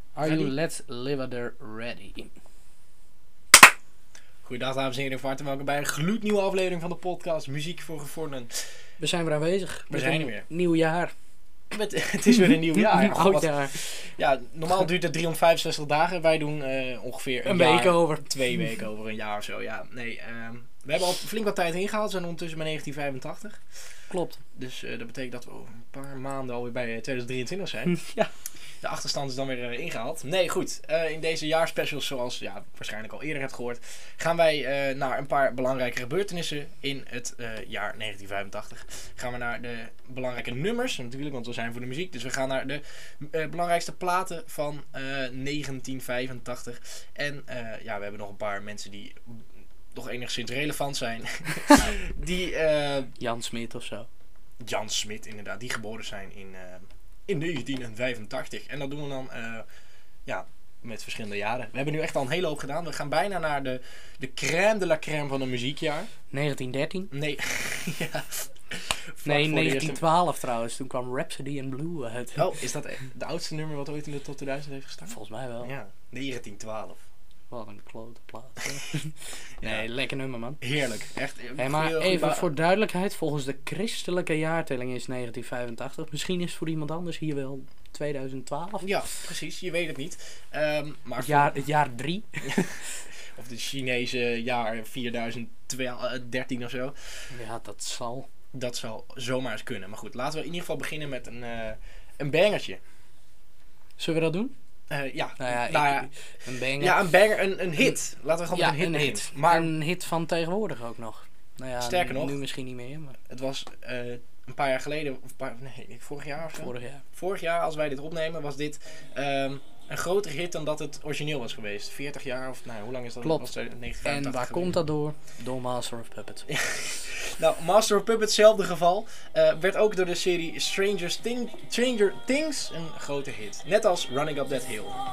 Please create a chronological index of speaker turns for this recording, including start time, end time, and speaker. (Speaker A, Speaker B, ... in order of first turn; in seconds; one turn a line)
Speaker A: 0.1-2.3
Speaker B: 0.2-0.5
Speaker B: 4.4-8.7
Speaker A: 9.0-11.1
Speaker B: 9.9-10.4
Speaker B: 11.7-23.6
Speaker A: 12.7-13.8
Speaker A: 17.4-18.3
Speaker A: 24.1-24.4
Speaker B: 24.5-28.0
Speaker A: 27.9-28.3
Speaker B: 28.8-53.1
Speaker A: 53.2-54.1
Speaker B: 54.6-59.6
Speaker B: 60.2-66.1
Speaker A: 66.3-67.1
Speaker B: 67.1-70.0
Speaker A: 69.2-72.5
Speaker B: 72.3-77.0
Speaker A: 75.1-75.7
Speaker A: 77.5-80.6
Speaker B: 79.6-79.8
Speaker B: 80.6-82.5
Speaker A: 81.6-88.8
Speaker B: 88.8-91.6
Speaker A: 91.2-92.9
Speaker B: 92.5-92.7
Speaker B: 93.3-97.2
Speaker A: 97.3-98.3
Speaker B: 98.5-102.8
Speaker A: 104.0-104.5
Speaker B: 104.9-106.1
Speaker A: 105.4-107.1
Speaker B: 106.8-109.7
Speaker A: 108.5-113.2
Speaker B: 111.8-112.4
Speaker B: 113.3-124.8
Speaker A: 116.5-117.0
Speaker A: 123.2-123.5
Speaker A: 124.0-126.5
Speaker B: 126.5-135.0